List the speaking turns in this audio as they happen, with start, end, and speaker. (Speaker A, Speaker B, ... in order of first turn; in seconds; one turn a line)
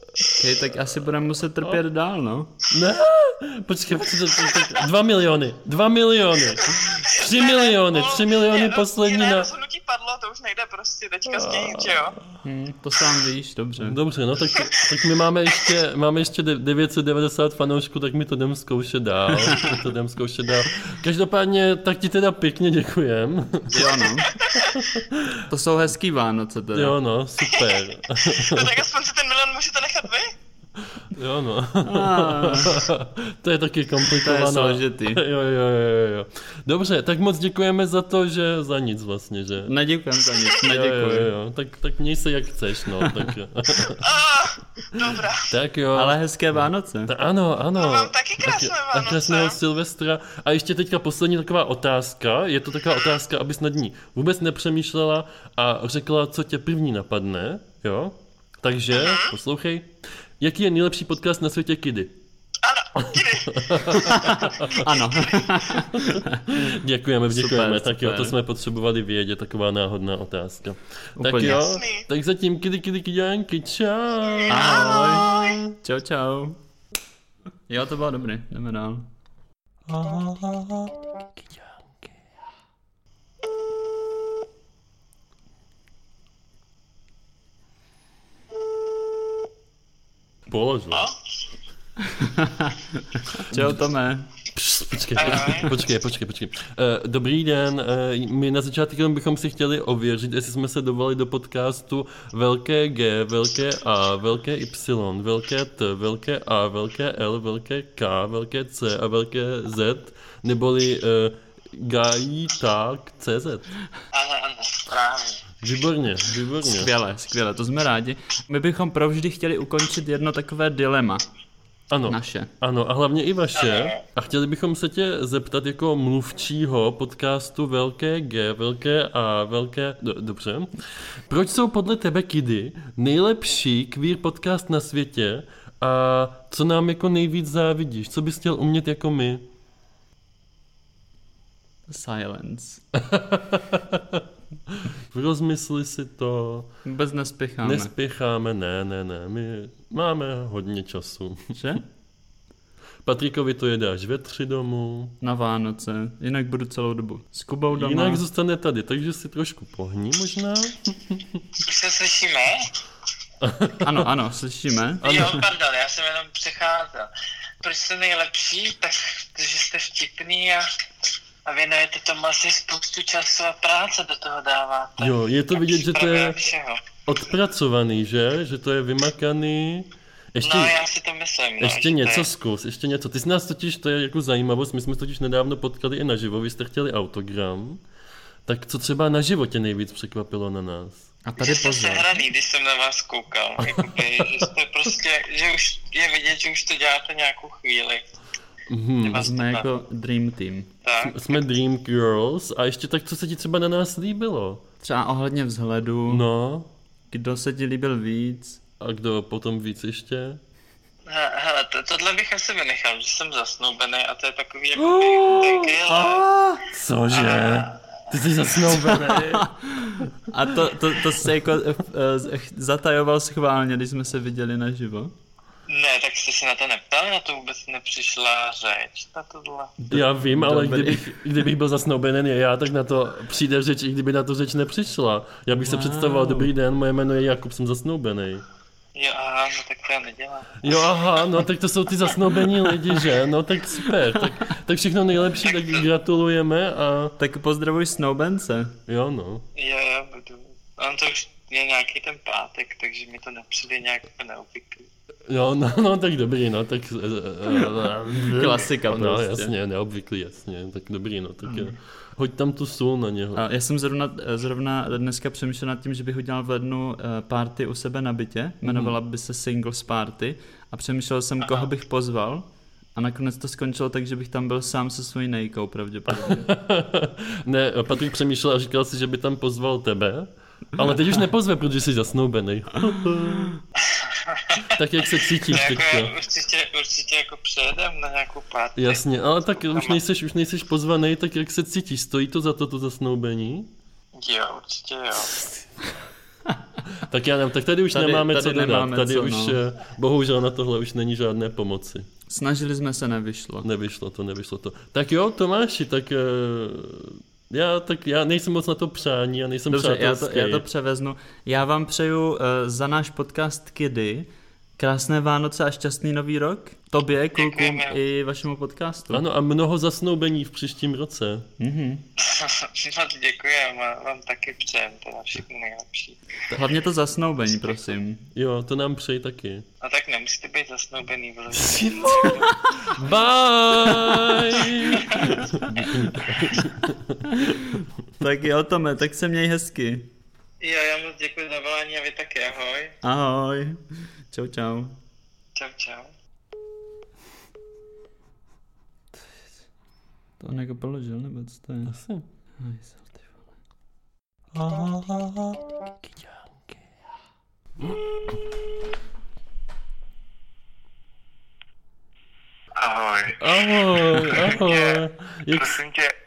Speaker A: 0.4-2.5
Speaker B: 2.7-9.5
Speaker C: 4.5-4.8
Speaker C: 6.6-12.2
Speaker B: 11.3-12.1
Speaker A: 12.4-14.0
Speaker B: 13.8-23.9
Speaker A: 23.7-24.4
Speaker C: 23.9-24.8
Speaker B: 24.8-25.4
Speaker A: 25.5-27.0
Speaker B: 26.7-28.7
Speaker C: 27.5-30.3
Speaker B: 31.0-39.7
Speaker A: 31.8-32.8
Speaker A: 34.2-35.2
Speaker A: 39.6-41.3
Speaker B: 40.6-44.1
Speaker C: 43.8-45.5
Speaker B: 45.0-62.2
Speaker A: 46.0-47.1
Speaker C: 47.8-49.6
Speaker C: 58.9-59.3
Speaker C: 62.6-64.9
Speaker B: 63.0-64.8
Speaker A: 64.1-66.5
Speaker B: 66.5-75.6
Speaker A: 67.3-68.4
Speaker A: 71.2-71.6
Speaker C: 71.4-72.1
Speaker C: 74.3-75.6
Speaker A: 74.5-76.6
Speaker A: 77.7-79.1
Speaker B: 79.9-81.7
Speaker B: 90.5-91.1
Speaker A: 92.1-94.3
Speaker B: 93.5-93.8
Speaker B: 94.5-113.7
Speaker D: 95.2-95.8
Speaker D: 114.1-115.4
Speaker B: 115.6-116.9
Speaker A: 116.6-121.2
Speaker B: 121.9-130.7
Speaker A: 122.1-122.5
Speaker D: 123.5-124.0
Speaker B: 131.3-139.4
Speaker A: 141.9-142.8
Speaker B: 142.9-146.7
Speaker A: 146.8-147.9
Speaker B: 147.6-151.5
Speaker A: 151.5-151.9
Speaker B: 153.0-155.2
Speaker A: 155.2-158.2
Speaker B: 157.7-161.4
Speaker D: 161.6-162.6
Speaker B: 163.4-164.1
Speaker A: 163.8-165.3
Speaker B: 165.0-165.4
Speaker D: 165.0-167.1
Speaker D: 167.6-170.7
Speaker D: 171.5-176.8
Speaker B: 175.0-176.4
Speaker B: 177.1-180.8
Speaker D: 180.4-182.3
Speaker B: 181.6-187.8
Speaker B: 188.5-191.1
Speaker A: 191.2-192.1
Speaker D: 191.4-198.1
Speaker B: 193.6-194.4
Speaker B: 198.7-199.3
Speaker D: 199.0-199.7
Speaker A: 199.2-200.7
Speaker D: 200.8-201.2
Speaker B: 201.0-204.6
Speaker A: 204.8-206.2
Speaker B: 206.1-206.7
Speaker A: 207.1-208.6
Speaker B: 208.8-210.4
Speaker D: 211.1-216.2
Speaker B: 214.8-216.2
Speaker A: 215.9-216.6
Speaker B: 216.7-219.5
Speaker D: 217.1-217.8
Speaker A: 219.4-225.1
Speaker D: 225.7-229.8
Speaker A: 229.8-231.0
Speaker B: 229.9-238.4
Speaker A: 235.6-236.5
Speaker D: 238.9-240.8
Speaker B: 240.6-247.2
Speaker D: 245.4-245.9
Speaker A: 247.2-248.8
Speaker B: 248.9-249.5
Speaker D: 249.6-254.9
Speaker B: 255.3-263.4
Speaker A: 258.2-259.5
Speaker A: 261.4-261.7
Speaker A: 263.4-276.5
Speaker B: 268.7-268.9
Speaker B: 276.1-283.5
Speaker D: 283.9-284.7
Speaker B: 284.7-286.2
Speaker D: 285.5-290.0
Speaker B: 288.8-293.7
Speaker D: 294.2-295.4
Speaker B: 295.2-295.5
Speaker B: 297.0-302.1
Speaker A: 297.9-299.6
Speaker A: 302.3-303.7
Speaker B: 303.6-310.6
Speaker A: 309.7-319.2
Speaker D: 317.4-318.0
Speaker B: 319.1-321.5
Speaker A: 321.6-322.1
Speaker D: 322.2-326.2
Speaker A: 326.5-328.3
Speaker B: 328.3-329.6
Speaker D: 329.8-332.5
Speaker B: 331.5-337.2
Speaker A: 332.2-332.7
Speaker A: 333.8-334.1
Speaker D: 334.6-335.1
Speaker A: 337.3-340.1
Speaker D: 340.6-342.9
Speaker A: 343.0-343.8
Speaker A: 344.3-345.0
Speaker D: 345.6-346.1
Speaker A: 350.4-351.9
Speaker B: 351.9-352.2
Speaker A: 352.6-353.4
Speaker B: 354.5-356.3
Speaker B: 363.4-365.8